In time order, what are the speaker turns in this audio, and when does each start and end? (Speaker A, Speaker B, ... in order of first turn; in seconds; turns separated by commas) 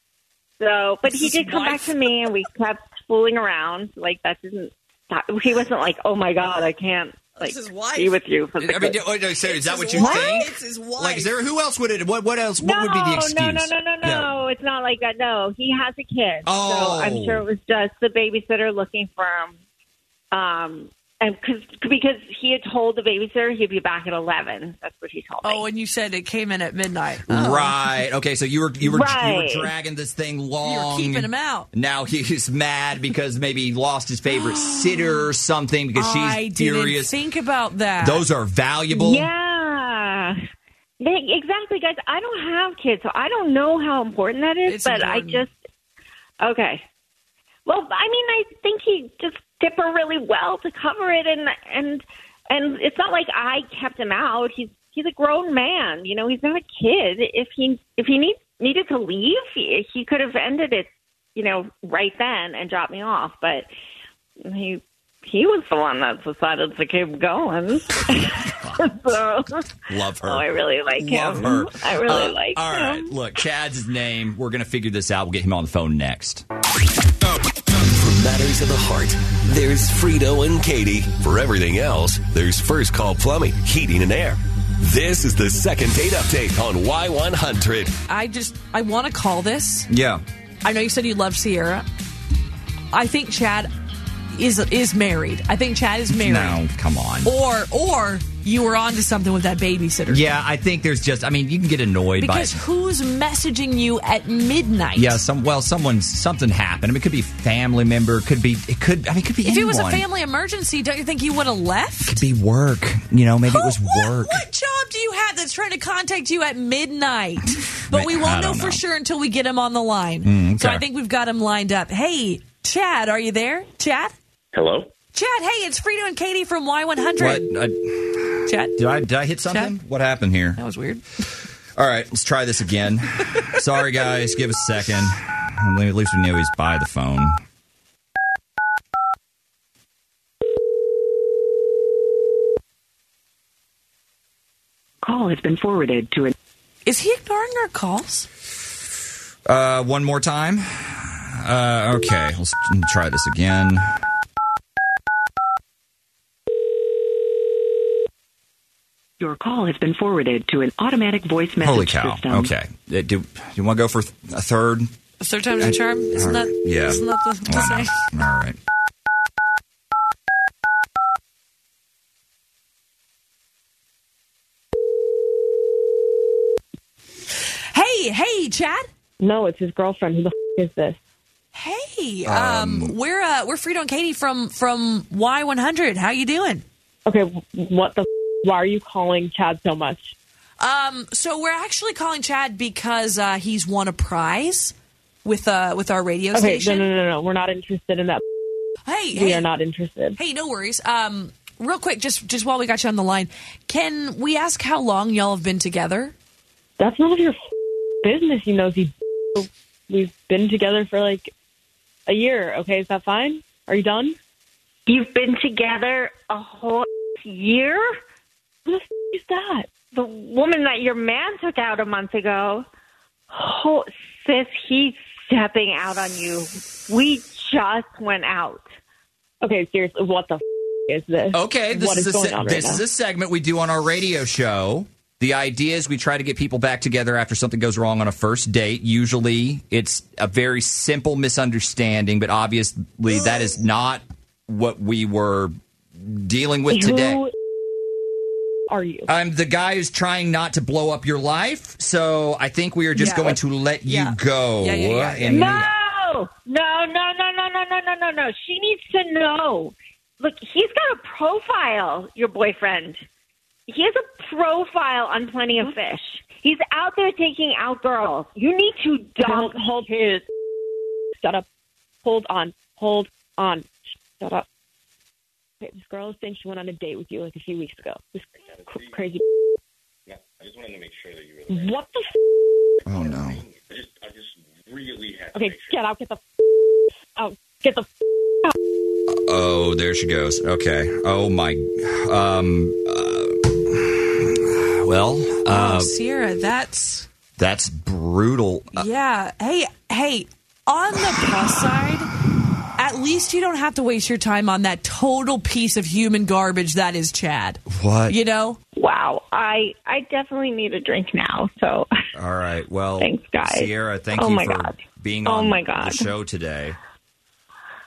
Speaker A: 0.6-9.0, Speaker B: 1.1-2.2, Speaker B: 7.4-8.2, Speaker C: 8.6-14.3, Speaker B: 9.4-11.3, Speaker A: 9.9-10.4, Speaker A: 12.6-19.6, Speaker C: 16.5-17.4, Speaker A: 20.3-25.6, Speaker B: 25.4-27.8, Speaker C: 27.3-37.1, Speaker A: 28.8-29.7, Speaker B: 30.6-31.7, Speaker B: 34.3-35.3, Speaker B: 36.0-38.3, Speaker C: 38.0-39.3, Speaker A: 38.9-40.4, Speaker A: 41.0-45.5, Speaker B: 44.7-45.5, Speaker A: 46.4-46.8, Speaker A: 47.7-63.7, Speaker A: 64.4-69.7, Speaker C: 69.9-76.5, Speaker A: 70.2-73.1, Speaker D: 77.7-88.0, Speaker B: 88.1-89.9, Speaker C: 89.9-90.2, Speaker B: 90.6-91.8, Speaker B: 92.9-93.7, Speaker B: 94.3-96.6, Speaker C: 96.1-97.3, Speaker B: 97.2-100.3, Speaker C: 100.1-102.6, Speaker B: 102.2-105.2, Speaker C: 105.0-110.0, Speaker B: 109.4-112.2, Speaker C: 112.1-114.4, Speaker B: 113.5-124.1, Speaker C: 117.9-118.8, Speaker C: 120.2-120.8, Speaker E: 124.5-124.9, Speaker B: 125.1-127.5, Speaker C: 127.2-130.6, Speaker B: 128.4-128.8, Speaker B: 129.4-129.8, Speaker B: 130.6-131.3, Speaker C: 131.8-137.4, Speaker F: 145.0-146.3, Speaker B: 146.8-148.3, Speaker C: 149.5-153.8, Speaker F: 159.2-162.5, Speaker C: 161.6-164.9, Speaker B: 165.2-168.1, Speaker C: 165.6-168.6, Speaker B: 177.7-178.9, Speaker G: 179.2-181.0, Speaker B: 181.5-186.6, Speaker C: 182.2-183.0, Speaker G: 187.1-190.2, Speaker B: 190.6-196.9, Speaker G: 196.3-198.2, Speaker B: 198.9-199.5, Speaker G: 199.1-200.2, Speaker B: 200.2-206.1, Speaker G: 206.8-207.4, Speaker G: 208.0-211.3, Speaker G: 212.1-214.2, Speaker A: 214.9-217.9, Speaker G: 218.7-219.7, Speaker A: 219.9-222.7, Speaker A: 223.3-228.6, Speaker G: 229.4-232.8, Speaker C: 231.3-247.2, Speaker G: 246.7-247.3, Speaker G: 248.7-249.1, Speaker C: 249.1-255.7, Speaker B: 252.9-255.5, Speaker A: 255.3-263.0, Speaker A: 263.7-270.2, Speaker G: 269.2-270.2, Speaker G: 271.2-271.5, Speaker G: 272.0-274.4, Speaker G: 275.6-279.2, Speaker E: 280.1-281.5, Speaker G: 281.5-282.1, Speaker C: 282.9-283.4, Speaker E: 283.4-284.1, Speaker E: 284.7-285.6, Speaker G: 285.3-286.2, Speaker G: 287.2-287.9, Speaker C: 289.1-295.9, Speaker B: 295.5-297.1, Speaker C: 297.4-298.9, Speaker B: 298.7-302.1, Speaker C: 301.0-301.3, Speaker B: 302.8-308.6, Speaker C: 307.7-308.2, Speaker A: 308.8-311.9, Speaker C: 312.1-316.8, Speaker A: 313.0-316.1